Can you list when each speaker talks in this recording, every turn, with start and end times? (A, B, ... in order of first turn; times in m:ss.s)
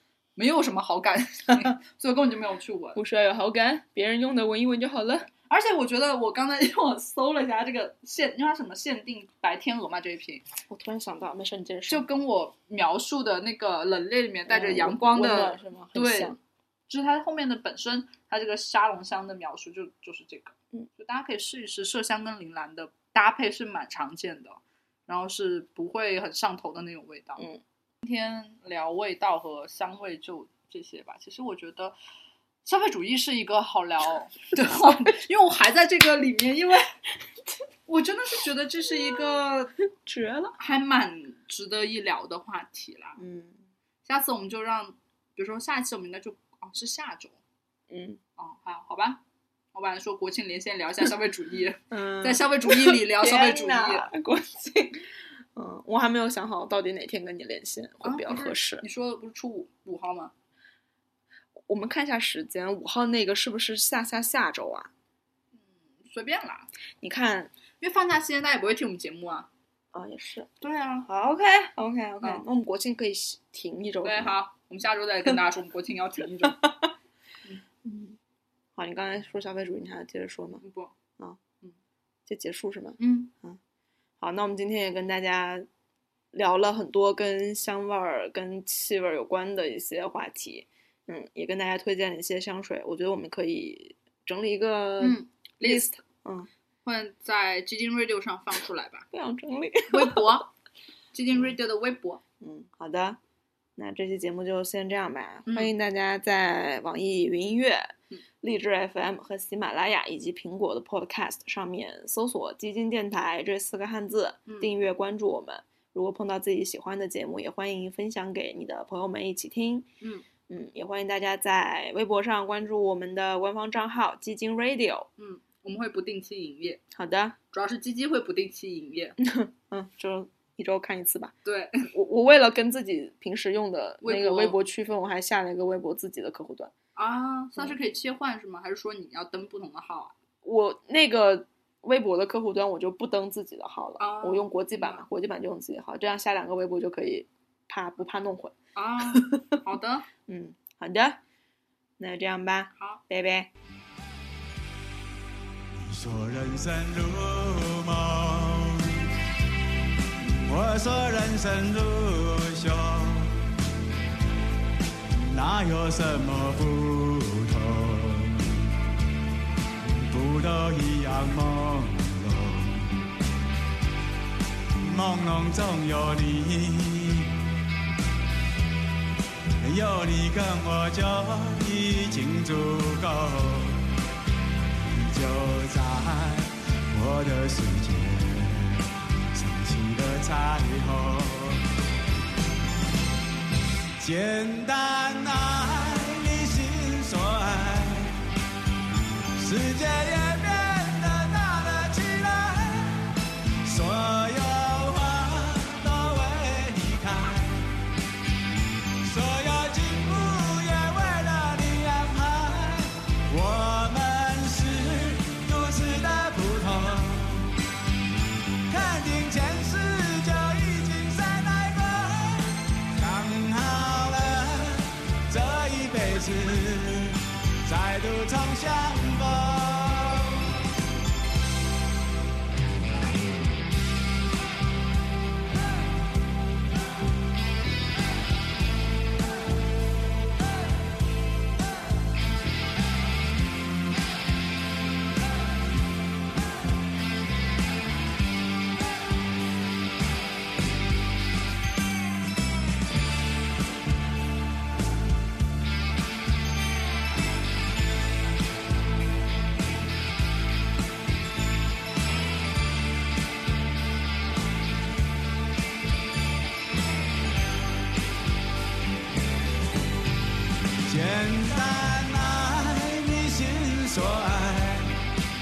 0:00.4-0:03.0 A
0:02.9-0:05.3 B
0:05.5-0:10.5 A
0:10.7-0:12.0 B
0:11.9-0:16.4 A
0:14.5-0:16.4 B
0:16.9-0:27.4 A
0:28.0-0:31.9 A
0:32.6-0:36.9 A
0:37.9-0:39.7 A
0:40.0-0:40.6 B
0:40.6-0:43.2 A
0:43.2-0:43.6 B
0:44.0-0:47.4 A
0:47.9-0:48.2 B
0:48.4-0:49.2 A
0:49.7-0:54.1 A
0:51.9-0:58.8 B
0:58.0-1:00.3 A
1:01.6-1:04.9 B
1:05.7-1:06.7 A
1:07.0-1:07.5 B
1:07.8-1:09.5 A
1:09.9-1:10.5 B
1:10.6-1:11.1 A
1:11.0-1:14.3 B
1:14.0-1:16.6 A
1:16.4-1:16.9 B
1:17.8-1:18.2 B
1:18.8-1:20.6 B
1:20.6-1:20.9 A
1:22.3-1:23.6 B
1:23.0-1:23.3 A
1:24.2-1:25.6 B
1:26.3-1:36.5 B
1:35.0-1:35.9 A
1:36.8-1:39.1 A
1:39.1-1:40.4 B
1:39.9-1:40.5 A
1:41.1-1:42.2 A
1:42.4-1:43.2 B
1:43.8-1:59.9 B
1:45.5-1:45.7 A
1:54.4-1:54.7 A
2:00.5-2:05.1 B
2:05.2-2:06.8 A
2:06.9-2:07.4 B
2:07.5-2:09.2 A
2:09.2-2:11.3 B
2:11.4-2:11.9 A
2:11.9-2:16.7 B
2:14.0-2:14.6 A
2:17.0-2:20.1 A
2:20.4-2:29.6 B
2:24.0-2:25.0 A
2:28.7-2:30.1 A
2:30.3-2:31.2 B
2:32.0-2:33.5 B
2:32.8-2:33.0 A
2:35.7-2:39.1 C
2:40.2-2:43.5 C
2:45.1-2:48.7 C
2:49.8-2:53.1 C
2:54.7-2:57.4 C
2:59.6-3:04.0 C
3:04.8-3:11.6 C
3:14.0-3:18.2 C
3:19.4-3:27.8 C
3:29.0-3:37.5 C
3:38.7-3:50.4 C
4:30.8-4:35.0 C